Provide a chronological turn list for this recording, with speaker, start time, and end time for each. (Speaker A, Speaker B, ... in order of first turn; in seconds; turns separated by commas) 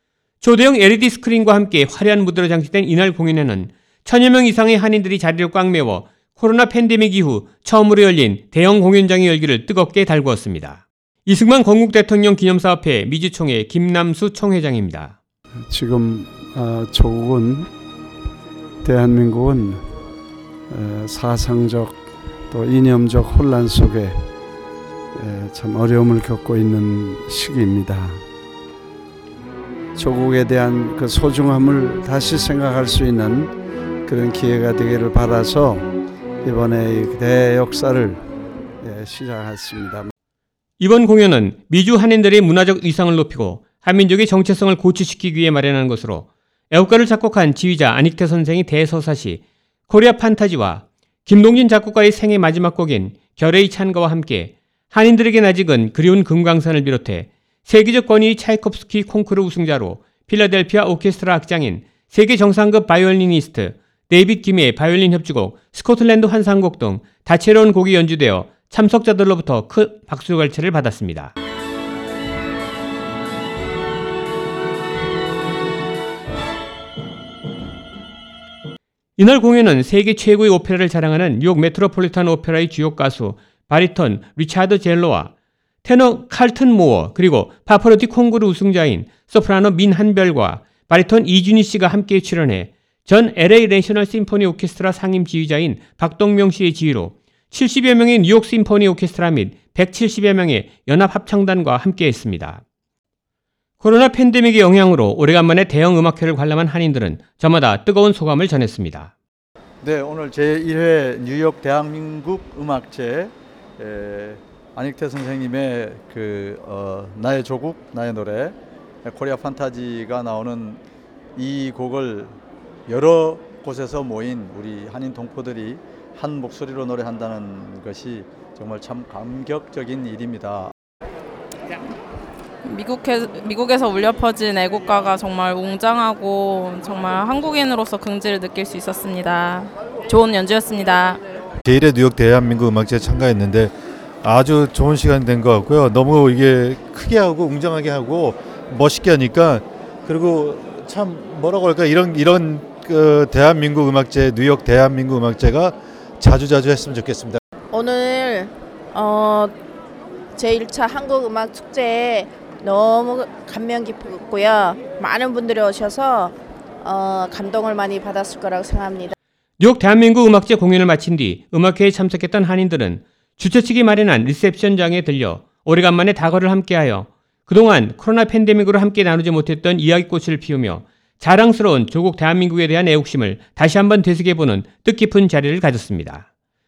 Speaker A: 0.4-15.2, Speaker B: 15.7-17.7, Speaker B: 18.8-19.8, Speaker B: 20.7-21.9, Speaker B: 22.5-24.2, Speaker B: 25.2-28.2, Speaker B: 29.9-33.5, Speaker B: 34.1-35.9, Speaker B: 36.4-38.2, Speaker B: 38.8-40.1, Speaker A: 40.8-71.3, Speaker A: 79.2-85.3, Speaker A: 85.8-102.6, Speaker A: 103.8-109.1, Speaker C: 109.8-120.8, Speaker C: 121.4-122.3, Speaker C: 122.9-130.7, Speaker D: 132.6-141.2, Speaker E: 141.7-157.4, Speaker F: 157.7-159.5, Speaker F: 160.3-169.1, Speaker A: 169.6-186.3